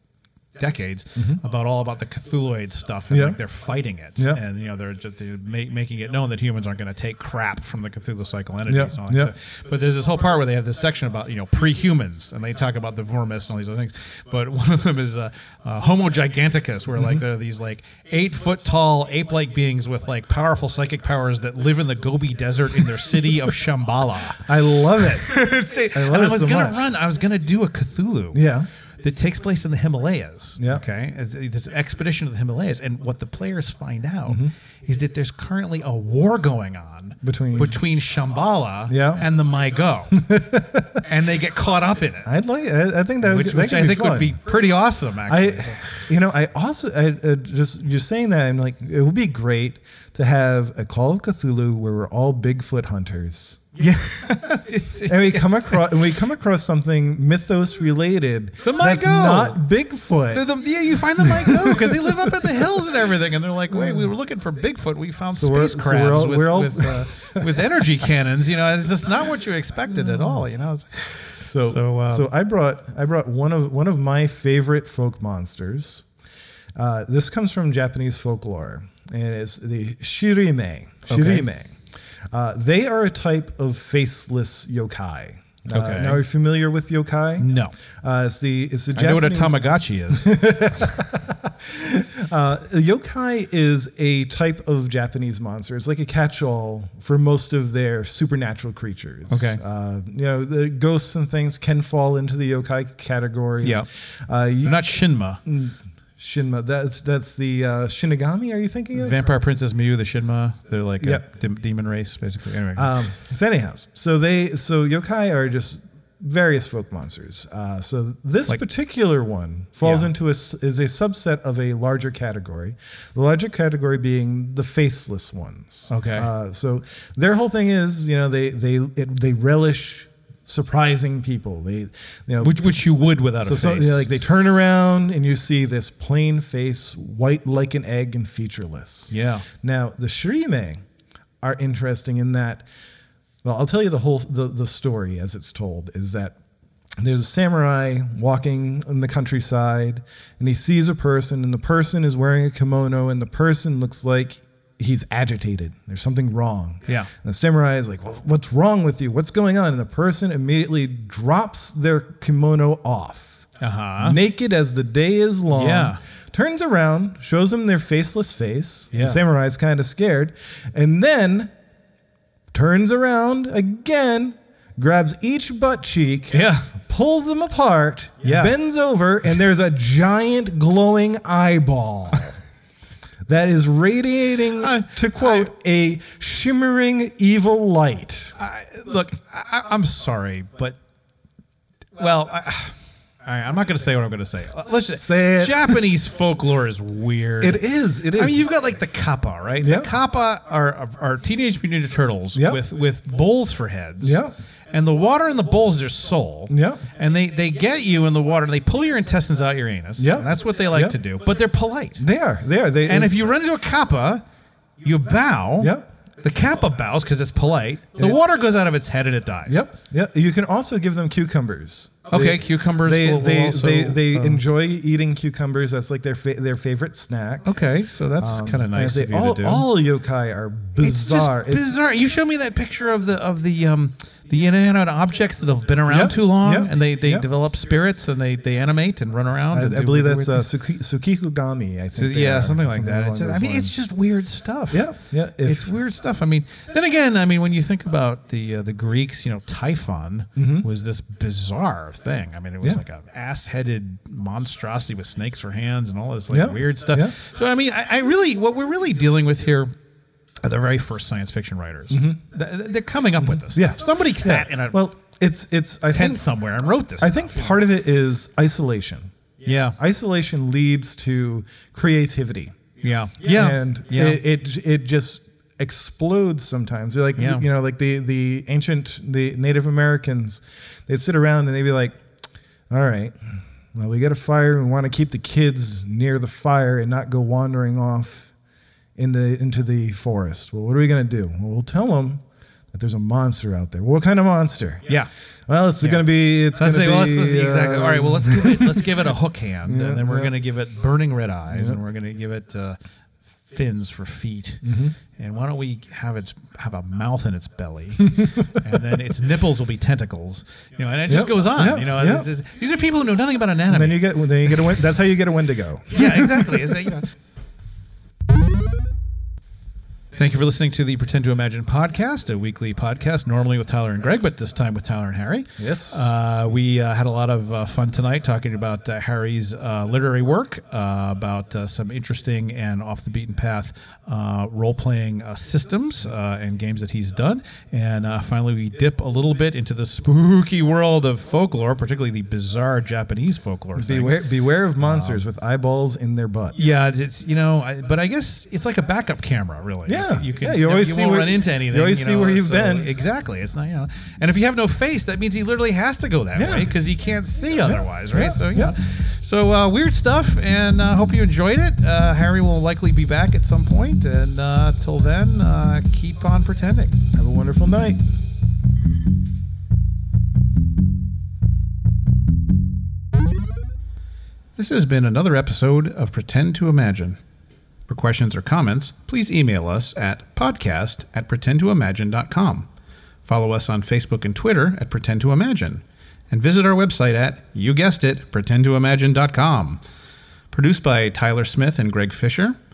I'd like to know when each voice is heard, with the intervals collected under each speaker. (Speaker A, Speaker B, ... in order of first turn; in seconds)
Speaker A: 0.6-28.5, 29.0-40.3, 41.0-42.3, 43.2-46.1, 53.8-56.0, 58.6-59.6, 60.3-72.3, 81.1-81.5, 85.7-86.2, 87.4-87.7, 88.9-90.9, 99.3-99.6, 104.6-105.4, 108.9-112.9, 119.8-120.1, 125.9-126.3, 132.4-134.1, 139.1-139.4, 163.6-164.2, 165.5-166.0, 168.9-169.2, 176.3-176.7, 178.2-178.5, 184.6-185.5, 188.4-190.8, 191.9-212.0, 212.8-214.2, 214.8-219.6, 222.1-224.4, 227.4-229.7, 230.8-240.4, 241.9-259.7, 260.4-264.8, 265.9-267.6, 269.4-269.8, 272.8-274.2, 277.2-277.4, 295.8-302.8, 303.4-314.8, 315.9-317.1, 320.1-344.3, 344.8-345.2, 346.6-367.0, 374.6-377.2, 377.9-382.7, 383.2-389.8, 390.5-392.6
Speaker B: 3.1-3.4, 8.7-9.3, 16.9-17.2, 24.4-25.4, 25.9-26.9, 28.3-28.7, 30.6-30.8, 34.3-34.5, 37.2-37.8, 38.9-39.2, 40.1-41.0, 42.2-44.4, 45.3-53.8, 55.0-60.5, 61.2-62.6, 63.7-64.1, 65.3-67.5, 70.0-70.5, 71.4-76.0, 76.8-81.8, 82.3-104.8, 105.4-109.3, 111.0-111.2, 112.8-140.8, 141.4-142.7, 143.4-146.3, 147.0-163.4, 164.0-171.5, 172.5-182.4, 183.3-188.3, 194.9-195.8, 197.4-198.4, 199.6-199.9, 202.3-202.6, 204.0-204.3, 206.5-206.8, 210.0-211.0, 212.0-213.1, 215.6-215.8, 219.4-227.5, 228.2-231.7, 235.9-237.3, 239.5-243.7, 244.7-245.8, 250.3-250.7, 256.3-257.1, 261.9-262.2, 263.4-266.3, 267.0-269.1, 269.8-272.5, 273.2-282.0, 282.7-288.3, 288.9-294.9, 295.5-299.0, 299.6-300.3, 301.5-301.8, 304.6-304.9, 311.1-312.3, 313.7-316.7, 325.6-326.2, 343.8-346.8, 349.9-352.9, 356.3-356.7, 357.6-358.8, 367.1-368.0